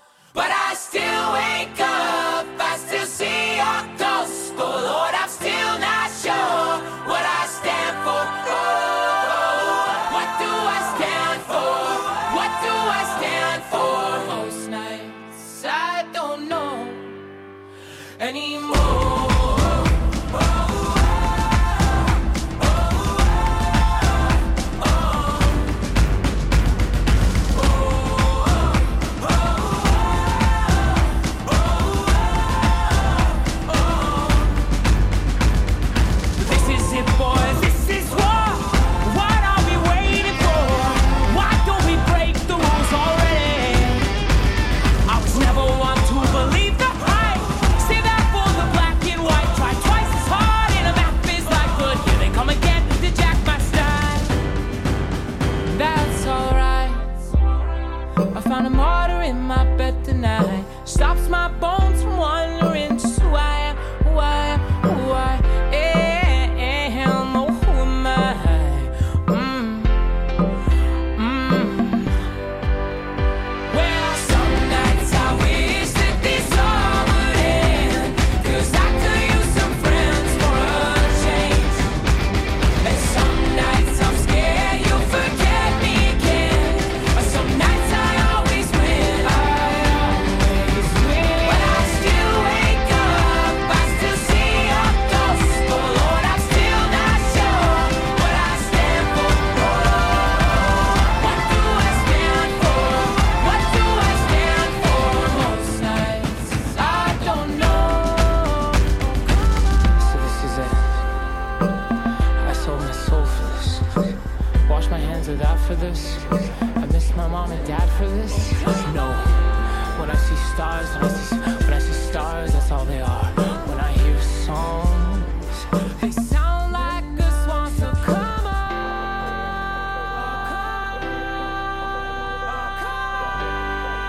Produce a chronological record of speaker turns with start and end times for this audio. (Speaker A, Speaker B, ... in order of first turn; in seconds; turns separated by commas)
Speaker A: 0.3-17.2, Speaker A: 18.2-20.3, Speaker A: 36.4-44.1, Speaker A: 45.0-54.4, Speaker A: 55.6-57.2, Speaker A: 58.3-70.2, Speaker A: 71.1-72.2, Speaker A: 73.7-81.9, Speaker A: 82.8-111.1, Speaker A: 112.4-114.1, Speaker A: 114.6-129.1, Speaker A: 130.1-131.2, Speaker A: 132.4-133.5